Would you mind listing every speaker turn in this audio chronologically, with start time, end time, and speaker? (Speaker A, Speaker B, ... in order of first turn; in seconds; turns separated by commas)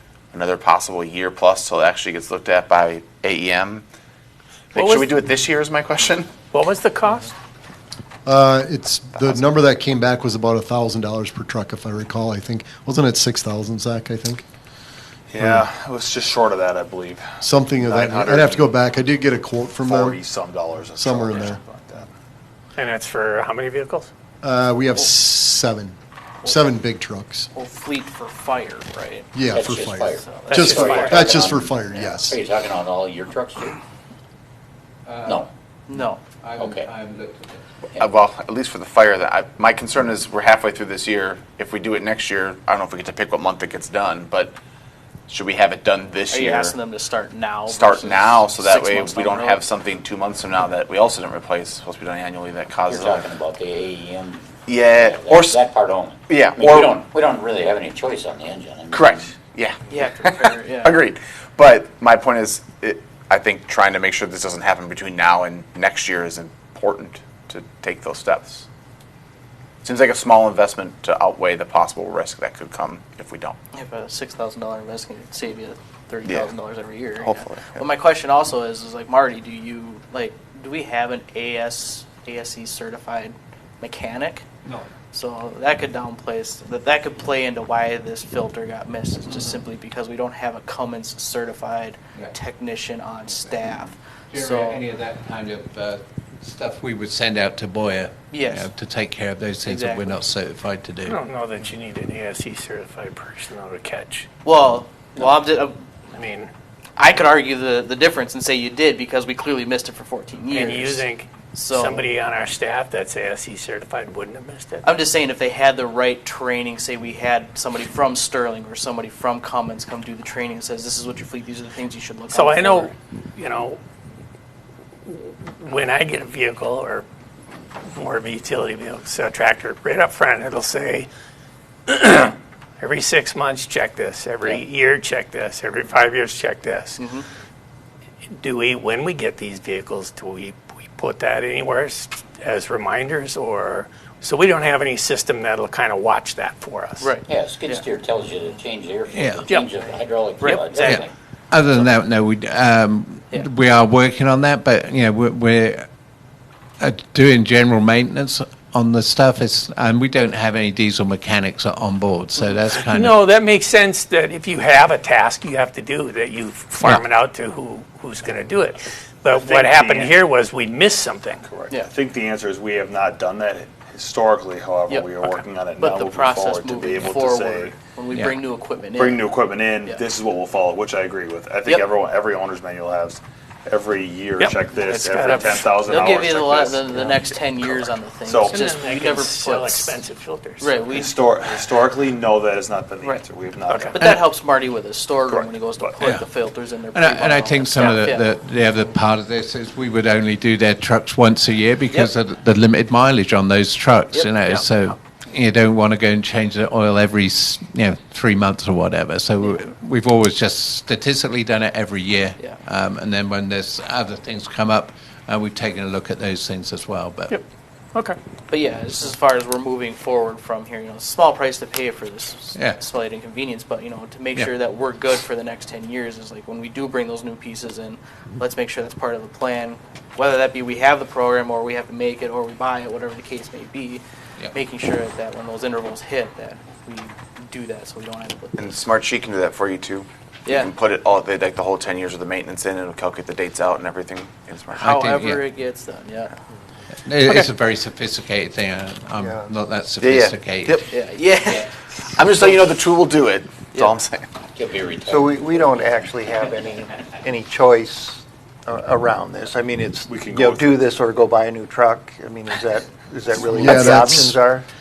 Speaker A: 0.3-3.9, Speaker A: 4.7-6.3, Speaker B: 4.8-5.1, Speaker B: 6.5-7.3, Speaker C: 8.3-14.4, Speaker A: 9.2-9.5, Speaker D: 15.3-18.8, Speaker C: 15.4-15.7, Speaker C: 17.4-20.2, Speaker D: 19.8-22.1, Speaker C: 21.0-21.6, Speaker B: 22.8-24.1, Speaker C: 24.4-27.5, Speaker E: 26.4-26.8, Speaker E: 27.6-31.2, Speaker C: 29.3-32.4, Speaker F: 29.5-30.2, Speaker B: 30.5-31.3, Speaker F: 30.7-33.8, Speaker G: 35.0-37.6, Speaker E: 35.9-36.2, Speaker F: 36.6-36.9, Speaker A: 38.0-44.5, Speaker A: 45.3-46.8, Speaker E: 46.3-49.6, Speaker A: 47.7-53.4, Speaker F: 52.9-59.3, Speaker A: 54.7-57.1, Speaker A: 58.9-68.7, Speaker E: 59.9-61.0, Speaker A: 69.8-73.6, Speaker E: 73.7-84.5, Speaker A: 77.2-77.8, Speaker E: 85.1-94.8, Speaker G: 94.3-101.2, Speaker E: 98.3-98.7, Speaker E: 99.6-100.2, Speaker B: 101.0-104.3, Speaker E: 104.4-105.8, Speaker B: 106.1-106.5, Speaker E: 107.0-112.1, Speaker B: 110.5-114.9, Speaker E: 114.8-122.9, Speaker B: 122.3-123.8, Speaker B: 125.1-127.1, Speaker B: 127.9-131.1, Speaker B: 131.9-137.0, Speaker E: 137.0-137.3, Speaker B: 138.3-147.1, Speaker E: 147.0-147.8, Speaker F: 147.3-151.1, Speaker G: 149.1-149.5, Speaker B: 149.5-149.7, Speaker E: 150.4-151.0, Speaker G: 150.8-155.9, Speaker G: 156.8-163.2, Speaker B: 162.8-171.4, Speaker D: 169.3-170.2, Speaker D: 171.4-177.8, Speaker E: 174.9-180.0, Speaker G: 178.1-178.4, Speaker D: 178.9-187.2, Speaker B: 184.4-185.8, Speaker E: 185.3-190.0, Speaker D: 187.8-188.6, Speaker B: 188.5-190.8, Speaker E: 190.6-191.7, Speaker D: 190.9-194.0, Speaker B: 193.7-193.9, Speaker E: 193.9-198.3, Speaker D: 195.3-196.0, Speaker G: 196.0-196.4, Speaker G: 196.9-217.4, Speaker E: 204.1-204.9, Speaker E: 218.5-238.8, Speaker A: 238.6-245.0, Speaker E: 240.5-240.7, Speaker G: 244.8-245.4, Speaker E: 244.8-246.3, Speaker G: 247.0-250.9, Speaker H: 249.2-249.5, Speaker A: 250.0-250.9, Speaker E: 250.9-251.7, Speaker A: 252.1-254.3, Speaker F: 254.6-255.9, Speaker H: 255.1-264.7, Speaker D: 260.1-260.9, Speaker C: 263.5-264.4